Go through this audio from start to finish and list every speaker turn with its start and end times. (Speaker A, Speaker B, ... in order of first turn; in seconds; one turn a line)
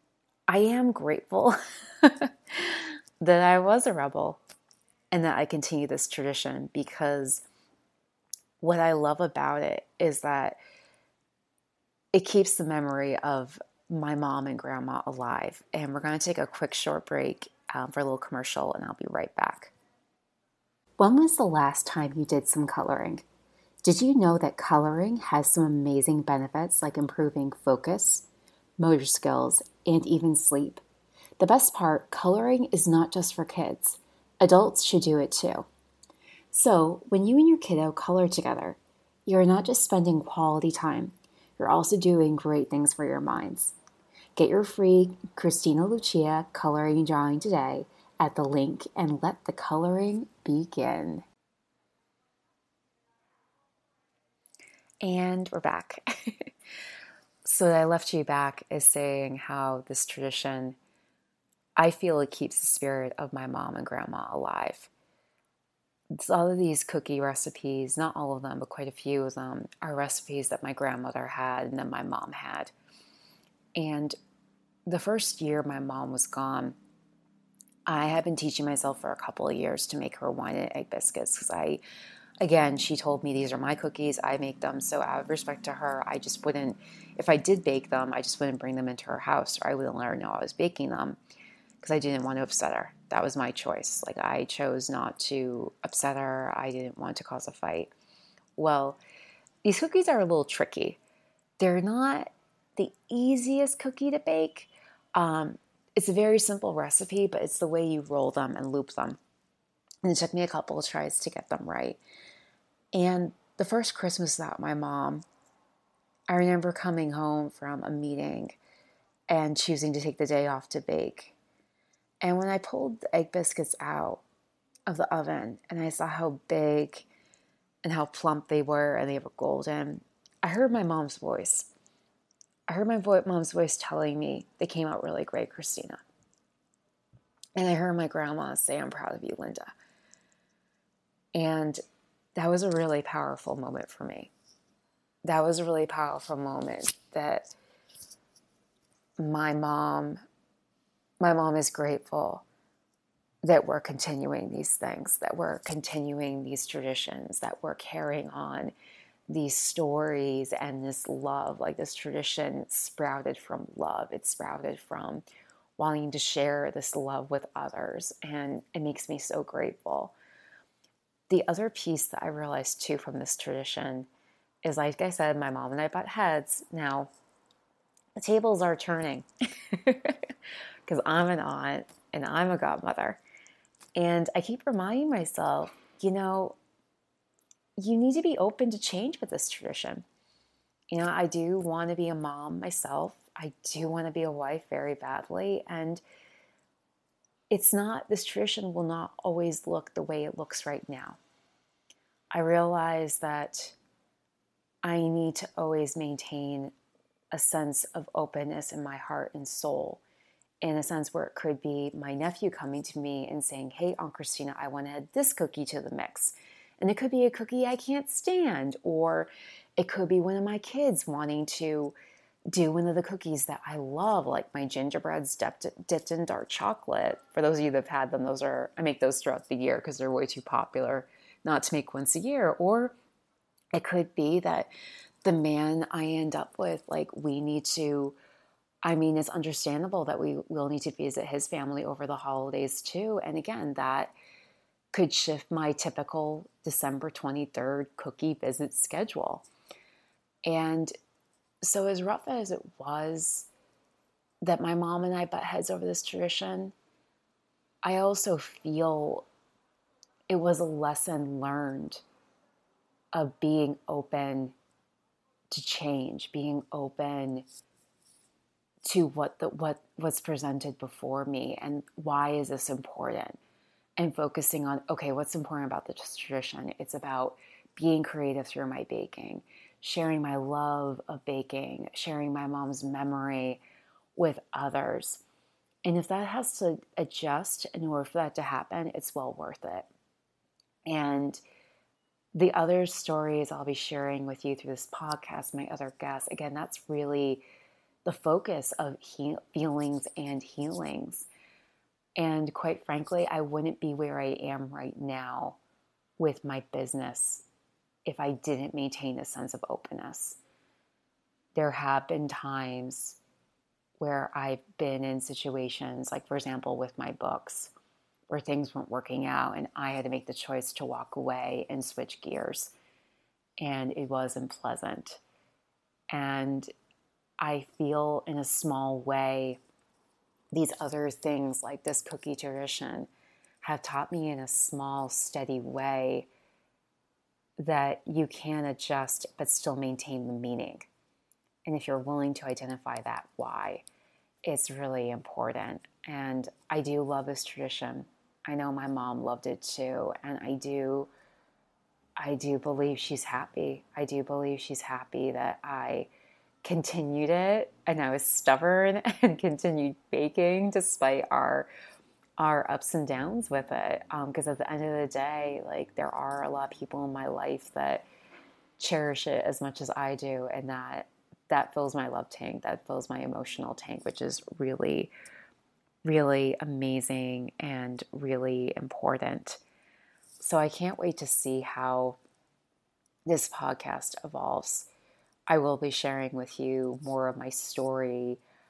Speaker A: 0.5-4.4
Speaker A: 5.1-7.5
Speaker A: 8.6-10.6
Speaker A: 12.1-19.7
Speaker A: 21.0-23.2
Speaker A: 23.8-28.3
Speaker A: 28.8-30.8
Speaker A: 31.4-35.7
Speaker A: 36.5-43.8
Speaker A: 44.4-51.2
Speaker A: 55.0-56.5
Speaker A: 57.5-60.8
Speaker A: 61.8-64.9
Speaker A: 66.1-72.7
Speaker A: 73.8-74.2
Speaker A: 74.9-76.8
Speaker A: 77.9-81.8
Speaker A: 82.4-91.2
Speaker A: 91.8-97.9
Speaker A: 98.6-99.0
Speaker A: 99.6-101.0
Speaker A: 101.6-109.2
Speaker A: 110.0-112.0
Speaker A: 112.9-115.2
Speaker A: 116.3-118.6
Speaker A: 119.3-121.4
Speaker A: 122.2-124.2
Speaker A: 124.9-127.1
Speaker A: 127.8-131.7
Speaker A: 132.7-136.0
Speaker A: 137.6-139.7
Speaker A: 141.3-141.8
Speaker A: 142.4-144.3
Speaker A: 145.2-147.5
Speaker A: 149.2-150.2
Speaker A: 151.2-152.5
Speaker A: 153.4-158.7
Speaker A: 159.3-165.2
Speaker A: 165.8-170.2
Speaker A: 171.3-174.1
Speaker A: 174.6-177.1
Speaker A: 178.2-180.3
Speaker A: 180.9-183.2
Speaker A: 184.0-186.6
Speaker A: 187.8-190.1
Speaker A: 190.9-196.0
Speaker A: 197.5-201.2
Speaker A: 202.3-203.8
Speaker A: 204.8-206.7
Speaker A: 207.3-210.0
Speaker A: 210.6-222.0
Speaker A: 222.5-233.0
Speaker A: 233.7-234.7
Speaker A: 235.2-238.2
Speaker A: 238.8-244.1
Speaker A: 244.9-249.5
Speaker A: 250.5-250.9
Speaker A: 251.6-253.5
Speaker A: 254.4-256.7
Speaker A: 257.8-259.3
Speaker A: 260.3-262.0
Speaker A: 263.1-264.6
Speaker A: 265.5-267.5
Speaker A: 268.9-273.4
Speaker A: 274.0-283.6
Speaker A: 284.2-285.2
Speaker A: 285.9-289.9
Speaker A: 290.9-291.4
Speaker A: 292.3-297.4
Speaker A: 298.1-301.3
Speaker A: 302.2-305.6
Speaker A: 306.2-307.4
Speaker A: 308.1-310.4
Speaker A: 311.6-313.2
Speaker A: 314.0-317.7
Speaker A: 318.3-322.7
Speaker A: 323.6-325.2
Speaker A: 326.1-326.7
Speaker A: 327.4-329.6
Speaker A: 330.5-333.1
Speaker A: 333.6-336.3
Speaker A: 337.6-340.9
Speaker A: 341.7-343.8
Speaker A: 344.5-351.1
Speaker A: 352.2-356.1
Speaker A: 356.6-361.7
Speaker A: 362.4-368.1
Speaker A: 368.8-375.1
Speaker A: 376.0-379.6
Speaker A: 380.4-382.2
Speaker A: 383.3-384.9
Speaker A: 385.5-388.4